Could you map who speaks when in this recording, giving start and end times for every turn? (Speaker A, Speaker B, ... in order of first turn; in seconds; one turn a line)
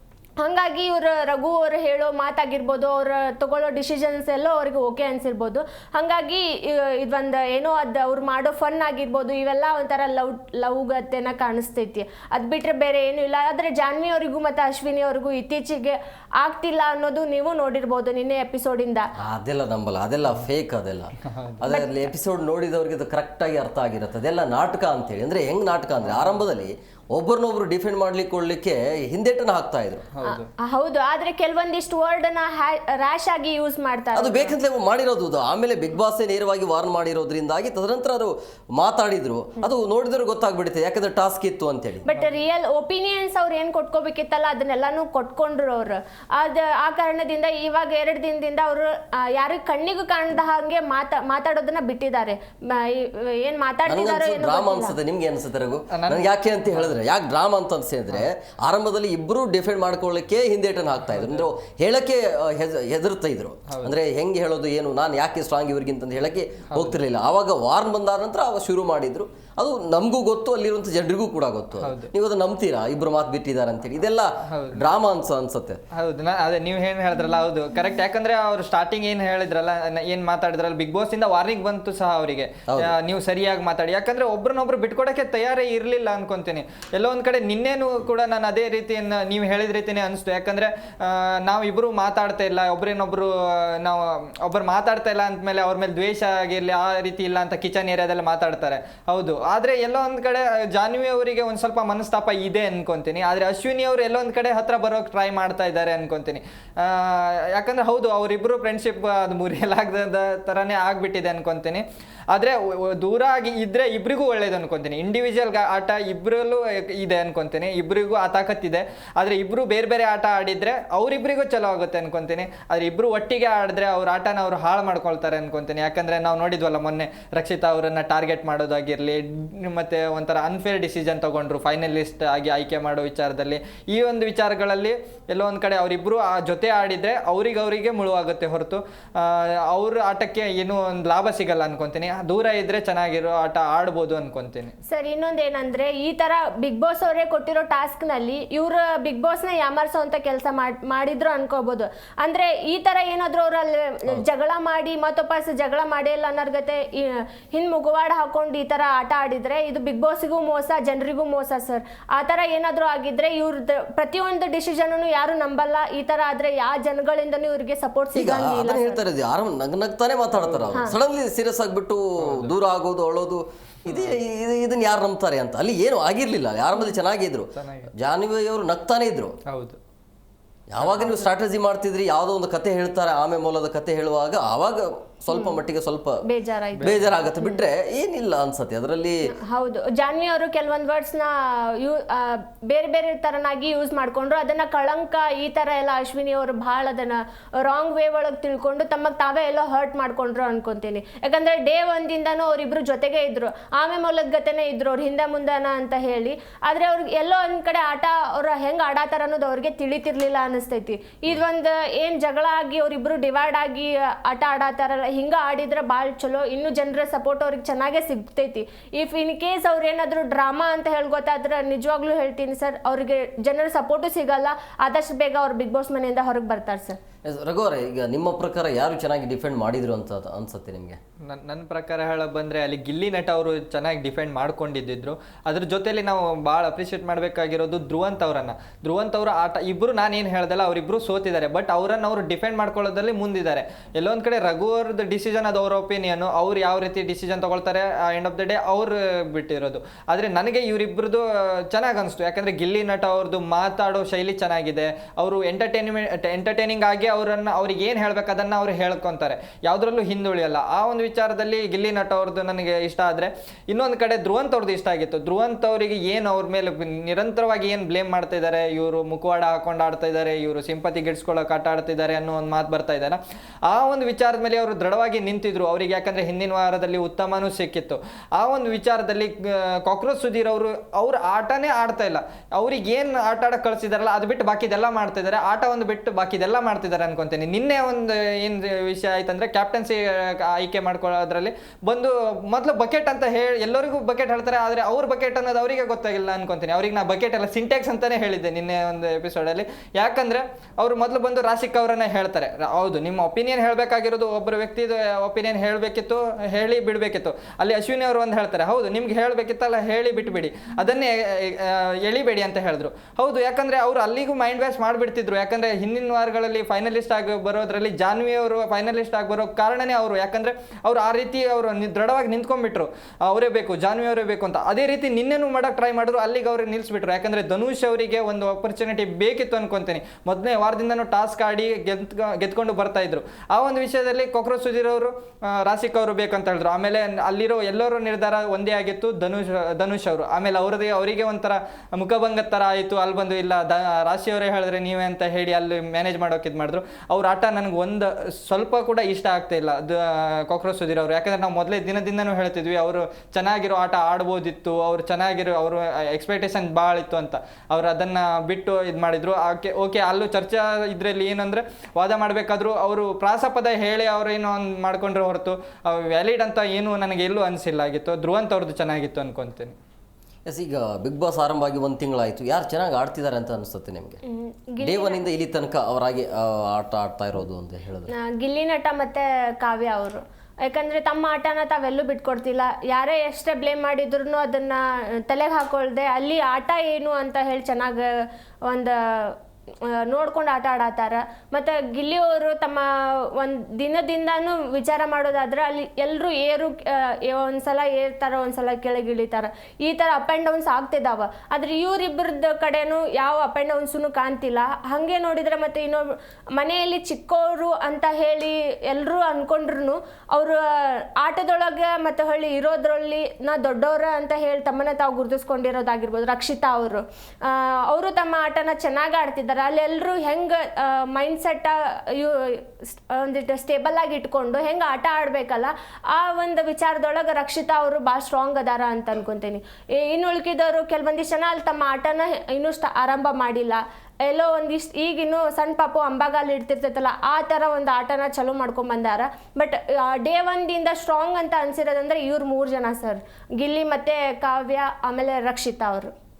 Speaker A: 0.4-19.1
Speaker B: 19.2-30.1
Speaker C: 21.2-21.6
Speaker A: 21.7-22.0
Speaker C: 26.1-26.4
Speaker C: 30.1-30.5
Speaker A: 30.2-34.5
Speaker B: 34.1-42.0
Speaker A: 42.0-55.0
Speaker B: 53.9-75.8
Speaker C: 55.9-56.9
Speaker C: 61.1-61.5
Speaker C: 63.7-63.9
Speaker C: 66.7-67.0
Speaker C: 71.8-72.1
Speaker C: 74.5-74.8
Speaker C: 75.9-144.7
Speaker B: 82.7-82.9
Speaker A: 144.9-169.0
Speaker B: 168.1-179.3
Speaker C: 170.4-170.7
Speaker C: 172.2-172.5
Speaker C: 173.8-174.2
Speaker C: 177.5-177.9
Speaker C: 179.5-179.8
Speaker B: 180.7-186.2
Speaker A: 186.2-187.6
Speaker C: 186.8-187.1
Speaker B: 186.8-189.3
Speaker A: 189.2-227.0
Speaker B: 227.2-231.0
Speaker C: 231.2-369.8
Speaker B: 370.4-374.2
Speaker A: 374.2-375.2
Speaker B: 374.8-378.1
Speaker A: 378.1-446.1